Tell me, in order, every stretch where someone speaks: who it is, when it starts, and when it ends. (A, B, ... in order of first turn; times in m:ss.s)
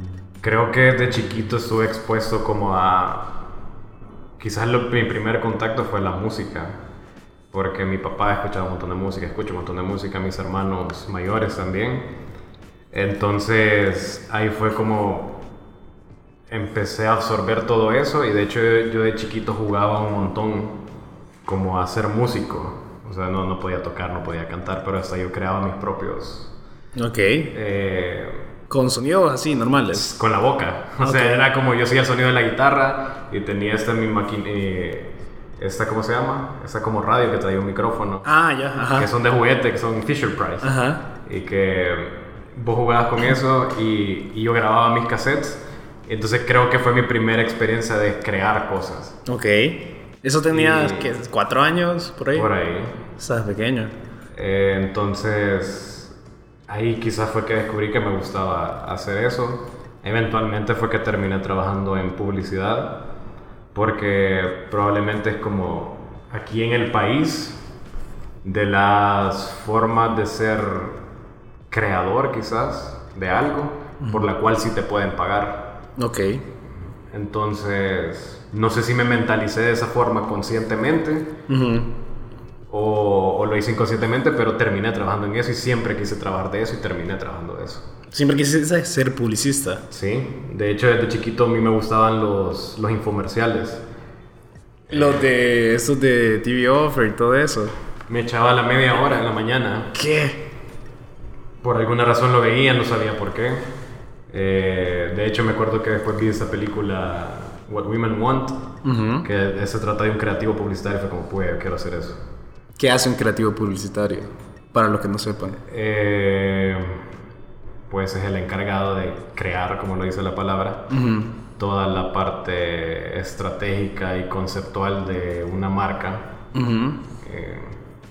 0:00.4-0:03.4 A
0:04.4-0:06.8 A
0:07.5-0:12.1 A
0:12.9-0:15.5 A
0:16.5-0:20.8 A
0:21.4-0:26.5 A
0:26.9-0:27.5 B
0:27.5-0:28.4 A
0:28.7-0:30.2 B
0:29.9-0:38.3 A
0:31.0-0:31.5 B
0:38.2-0:39.1 B
0:38.9-0:49.2 A
0:40.6-0:41.0 B
0:49.2-0:52.5 B
0:50.5-0:51.1 A
0:52.3-0:53.1 A
0:53.2-0:53.9 B
0:54.3-0:56.1 A
0:56.7-1:03.0 A
1:03.7-1:07.6 A
1:08.4-1:11.0 A
1:11.7-1:15.8 A
1:16.0-1:16.5 B
1:17.1-1:21.4 A
1:21.5-1:21.9 B
1:22.7-1:27.9 A
1:28.1-1:29.8 B
1:29.9-1:33.8 A
1:34.9-1:35.2 A
1:34.9-1:37.7 B
1:38.1-1:39.9 A
1:39.9-1:40.4 B
1:41.6-1:43.7 A
1:44.3-1:48.7 A
1:48.8-1:49.3 B
1:49.2-1:52.2 A
1:52.8-1:55.6 B
1:55.6-1:57.0 A
1:57.9-2:00.9 A
2:00.9-2:01.4 B
2:01.6-2:06.3 A
2:06.5-2:07.0 B
2:07.2-2:07.8 A